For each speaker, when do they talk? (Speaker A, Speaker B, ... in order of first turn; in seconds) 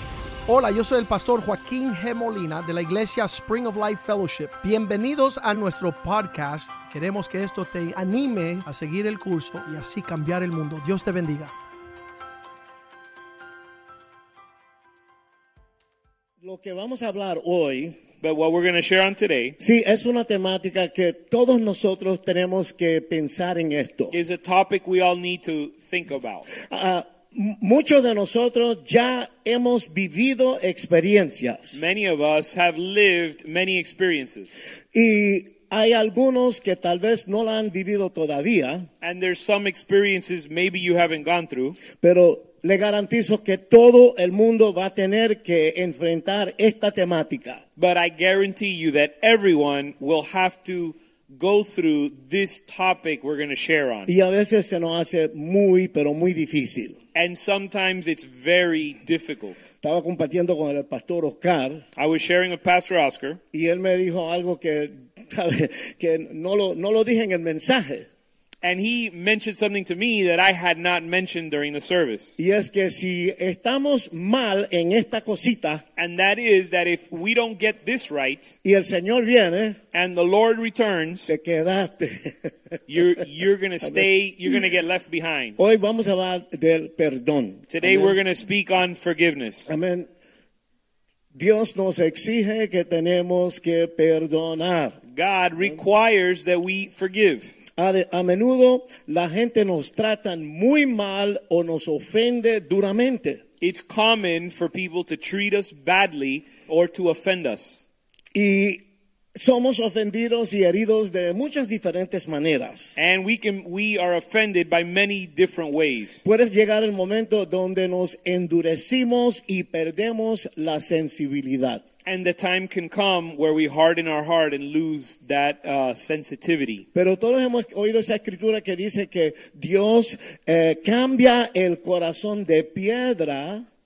Speaker A: 0.5-11.5
Speaker B: 16.4-18.0, 19.6-24.1, 26.6-31.8, 34.9-38.9, 42.0-47.6, 54.1-57.0, 59.8-61.8, 63.5-68.1, 72.4-75.8, 78.6-79.8, 81.3-83.0, 85.6-88.2, 89.7-90.1, 91.3-95.0, 97.8-103.4, 108.3-108.8, 109.3-112.9, 116.2-121.8, 126.9-133.6
Speaker C: 18.2-19.6, 24.1-26.5, 31.7-34.6, 39.0-41.8, 47.8-54.1, 57.1-59.6, 62.0-63.4, 68.6-72.3, 76.0-78.5, 79.9-81.3, 82.9-85.6, 87.7-89.7, 95.1-97.5, 103.6-107.8, 113.0-116.2, 122.0-126.8